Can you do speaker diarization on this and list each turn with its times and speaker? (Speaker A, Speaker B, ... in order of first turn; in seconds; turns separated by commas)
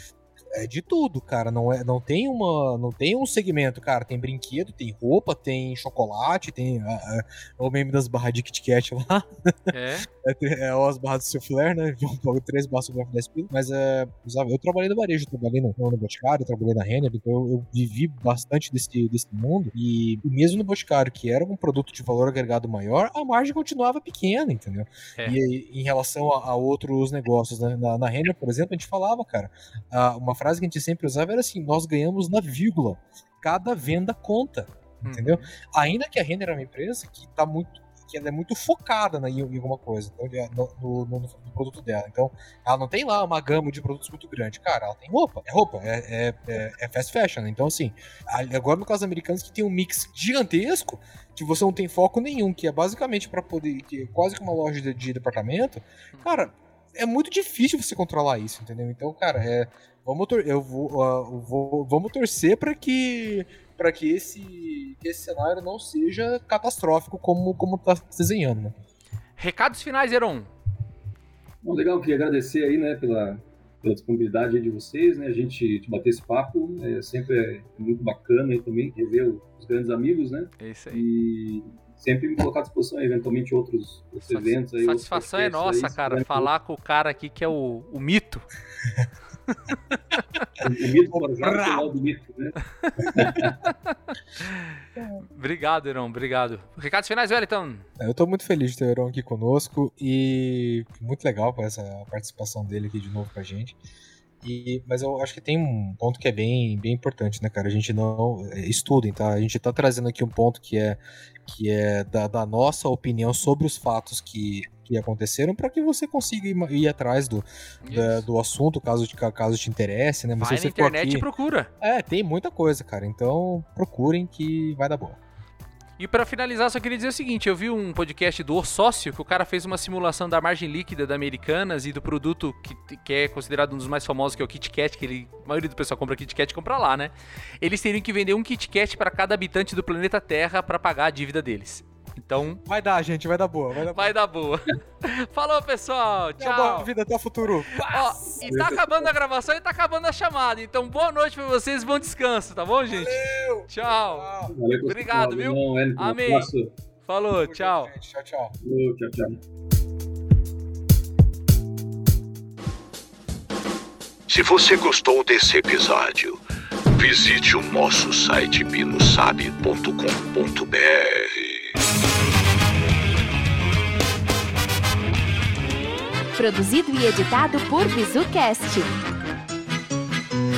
Speaker A: 0.5-68.8, Speaker B: 9.7-10.1, Speaker B: 35.1-35.5, Speaker B: 69.4-70.5, Speaker C: 71.6-86.5, Speaker B: 80.6-81.0, Speaker B: 84.3-88.5, Speaker B: 90.2-90.5, Speaker C: 90.6-93.6, Speaker A: 91.4-91.9, Speaker A: 93.1-93.4, Speaker B: 93.7-94.7, Speaker B: 95.3-97.8, Speaker A: 98.0-103.8, Speaker A: 104.4-121.3, Speaker B: 117.8-118.3, Speaker B: 120.4-121.7, Speaker A: 121.8-125.2, Speaker B: 126.0-142.6, Speaker A: 142.7-144.2, Speaker B: 143.9-146.9, Speaker A: 146.4-148.7, Speaker B: 147.8-153.2, Speaker C: 148.4-149.0, Speaker A: 152.9-154.6, Speaker B: 153.7-154.3, Speaker C: 154.5-156.7, Speaker B: 154.9-156.5, Speaker B: 157.1-157.9, Speaker A: 157.4-158.5, Speaker C: 158.6-159.4, Speaker D: 164.3-166.4, Speaker D: 166.9-171.8, Speaker E: 176.4-178.9